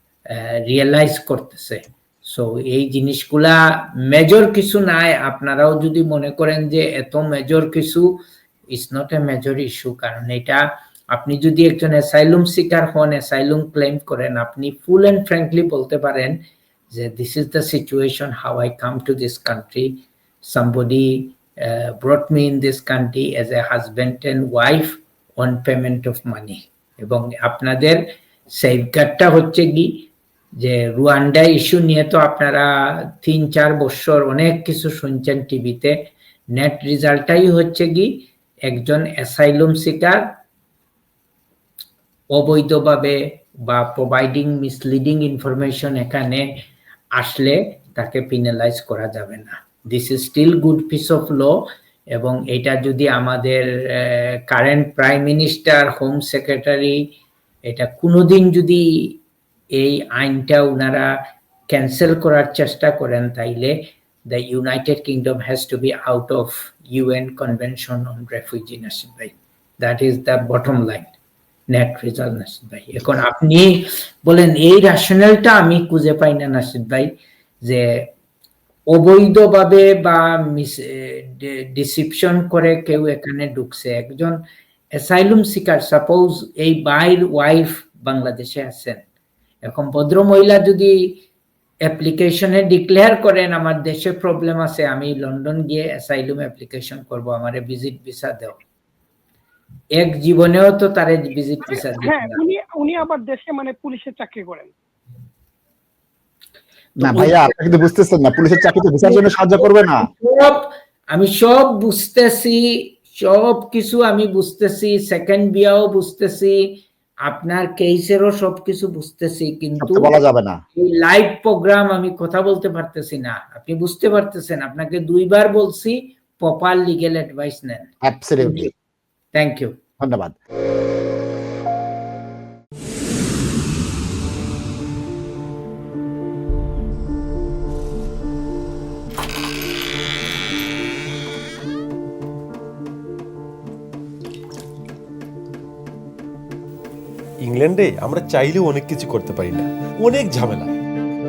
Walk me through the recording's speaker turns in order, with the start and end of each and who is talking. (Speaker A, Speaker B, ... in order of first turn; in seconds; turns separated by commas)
Speaker A: 0.3-8.2, Speaker A: 8.7-16.4, Speaker A: 16.9-28.0, Speaker A: 28.6-30.1, Speaker A: 30.6-40.2, Speaker A: 42.3-46.5, Speaker A: 47.2-51.5, Speaker A: 52.1-57.0, Speaker A: 57.7-59.2, Speaker A: 59.8-61.1, Speaker A: 61.7-63.8, Speaker A: 64.3-71.1, Speaker A: 71.7-78.1, Speaker A: 78.9-84.4, Speaker A: 84.9-89.0, Speaker A: 89.7-91.2, Speaker A: 91.8-98.6, Speaker A: 100.0-102.4, Speaker B: 101.7-104.7, Speaker A: 107.0-107.5, Speaker C: 107.0-110.1, Speaker A: 109.6-120.2, Speaker C: 119.8-120.6, Speaker A: 120.8-128.7, Speaker C: 128.0-128.7, Speaker A: 129.3-129.8, Speaker C: 130.0-130.4, Speaker D: 147.4-150.7